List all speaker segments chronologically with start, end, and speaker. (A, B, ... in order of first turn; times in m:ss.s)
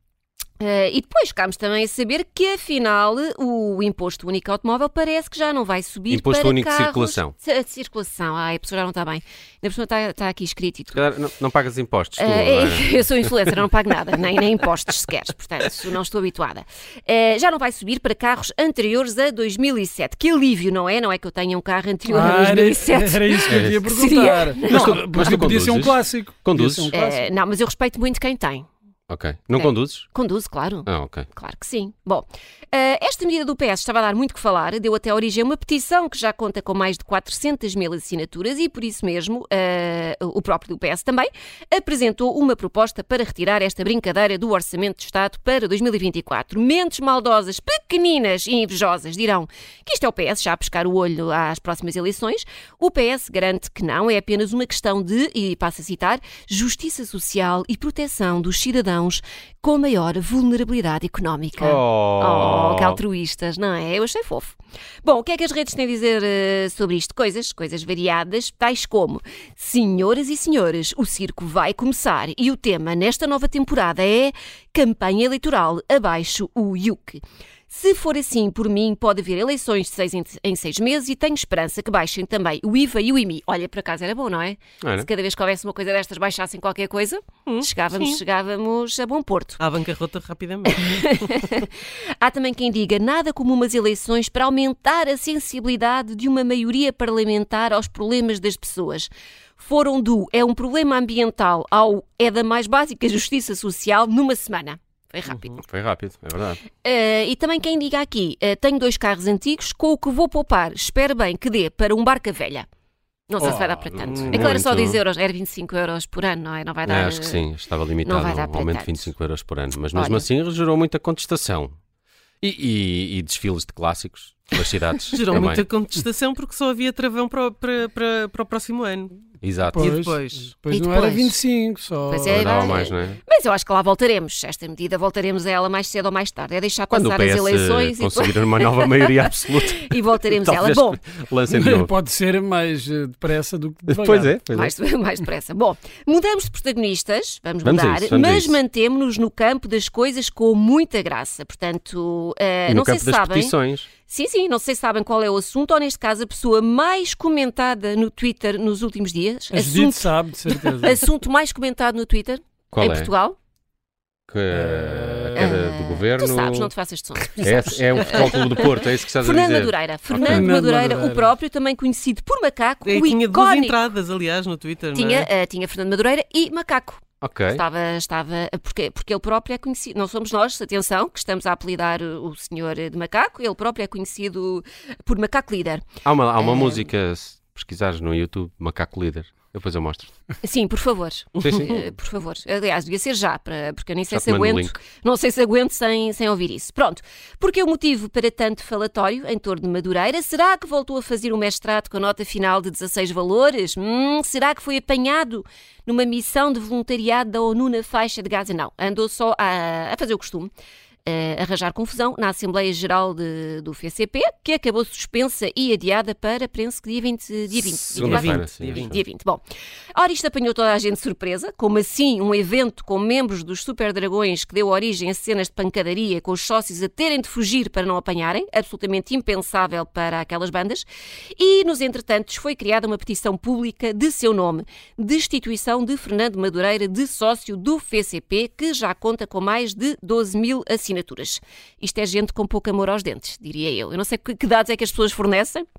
0:00.6-0:11.0 A
0:06.1-0:07.3 B
0:10.9-0:13.0 B
0:12.2-0:25.3 A
0:22.1-0:27.3 C
0:23.5-0:23.8 B
0:24.7-0:26.9 B
0:26.9-0:28.7 A
0:29.1-0:30.1 B
0:29.5-1:29.6 A
0:30.9-0:31.3 B
1:01.6-1:03.0 B
1:24.8-1:25.1 B
1:27.4-1:28.2 D
1:29.6-1:31.4 D
1:30.8-1:45.6 A
1:45.6-1:46.6 B
1:46.8-1:52.7 A
1:53.3-1:57.4 A
1:53.4-1:55.0 B
1:56.8-2:01.8 B
1:58.0-1:59.1 A
1:59.9-2:00.2 A
2:02.4-2:05.6 B
2:05.1-2:09.2 D
2:09.4-2:10.0 B
2:09.6-2:12.6 C
2:09.8-2:10.5 D
2:10.7-2:11.4 A
2:12.1-2:21.0 A
2:12.2-2:13.2 B
2:16.9-2:21.9 B
2:21.5-2:24.3 C
2:23.9-2:24.7 B
2:24.5-2:43.4 A
2:27.6-2:28.6 B
2:32.7-2:33.9 B
2:39.5-2:41.0 C
2:42.7-2:43.1 B
2:44.3-2:46.7 B
2:44.5-2:45.6 C
2:45.4-2:53.8 A
2:47.4-2:50.5 B
2:50.2-2:51.3 C
2:52.8-2:55.3 D
2:54.9-3:05.9 A
2:57.2-2:57.6 B
3:06.0-3:10.1 B
3:06.4-3:06.8 A
3:10.4-3:30.5 A
3:11.4-3:11.8 B
3:14.1-3:14.8 B
3:31.0-3:39.4 A
3:37.7-3:39.0 B
3:38.0-3:39.0 D
3:39.9-4:05.6 A